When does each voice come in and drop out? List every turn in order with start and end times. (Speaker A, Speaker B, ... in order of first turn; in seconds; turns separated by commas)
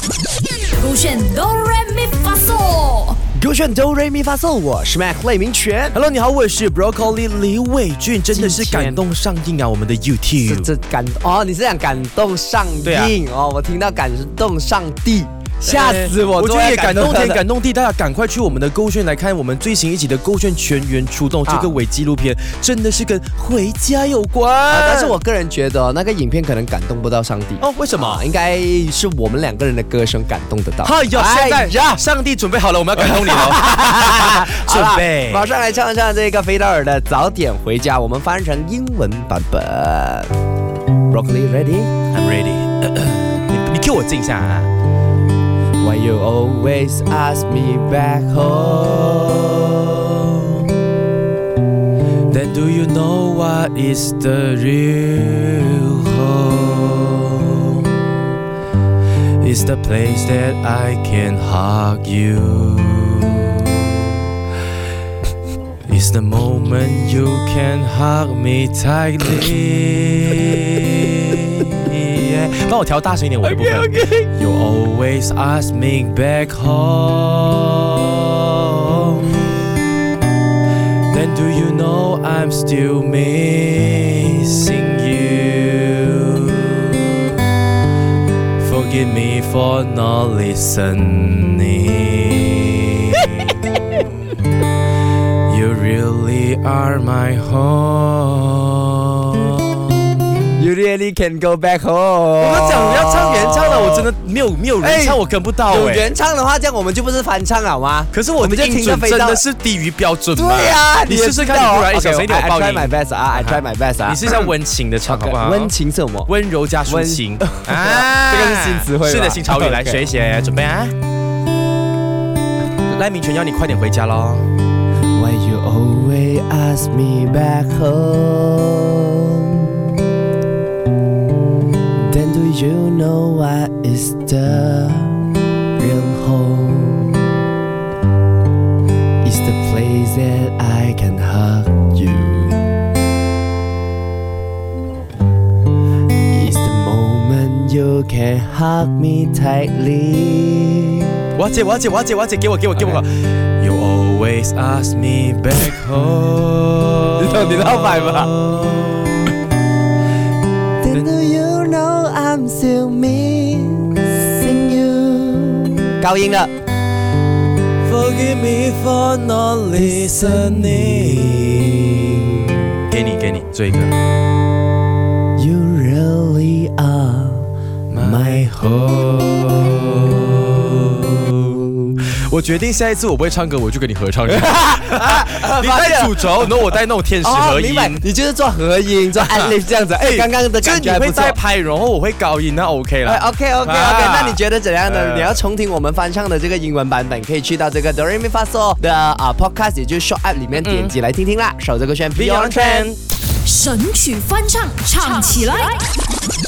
Speaker A: 0.8-3.2, Speaker B: 3.4-5.9, Speaker C: 5.9-10.7, Speaker B: 8.3-9.0, Speaker B: 10.4-17.4, Speaker C: 12.8-13.1, Speaker C: 15.6-25.2, Speaker B: 21.4-21.7, Speaker B: 24.7-32.0, Speaker C: 27.6-28.3, Speaker C: 30.8-35.5, Speaker B: 33.0-40.3, Speaker B: 41.1-41.9, Speaker C: 42.1-44.7, Speaker B: 45.8-50.4, Speaker C: 52.3-58.1, Speaker C: 59.4-64.2, Speaker C: 65.8-79.4, Speaker B: 73.4-74.3, Speaker C: 81.1-87.2, Speaker C: 88.6-93.8, Speaker C: 95.5-99.8, Speaker B: 100.6-104.1, Speaker C: 102.4-106.1, Speaker B: 104.8-109.4, Speaker C: 108.1-115.7, Speaker B: 110.3-114.5, Speaker B: 115.0-116.3, Speaker C: 116.2-120.9, Speaker B: 116.8-120.0, Speaker C: 122.9-124.5, Speaker B: 125.1-129.8, Speaker B: 131.9-135.2, Speaker B: 135.7-137.4, Speaker B: 139.2-142.6, Speaker B: 146.3-151.2, Speaker C: 151.3-159.3, Speaker B: 157.2-158.3, Speaker B: 160.8-166.5, Speaker C: 167.8-172.2, Speaker B: 169.8-171.3, Speaker C: 172.9-174.0, Speaker B: 175.3-178.9, Speaker C: 177.9-181.6, Speaker C: 182.2-188.0, Speaker B: 184.3-186.6, Speaker B: 187.2-191.4, Speaker C: 189.2-195.4, Speaker B: 193.0-202.9, Speaker C: 200.6-200.9, Speaker C: 202.1-203.0, Speaker A: 203.4-205.8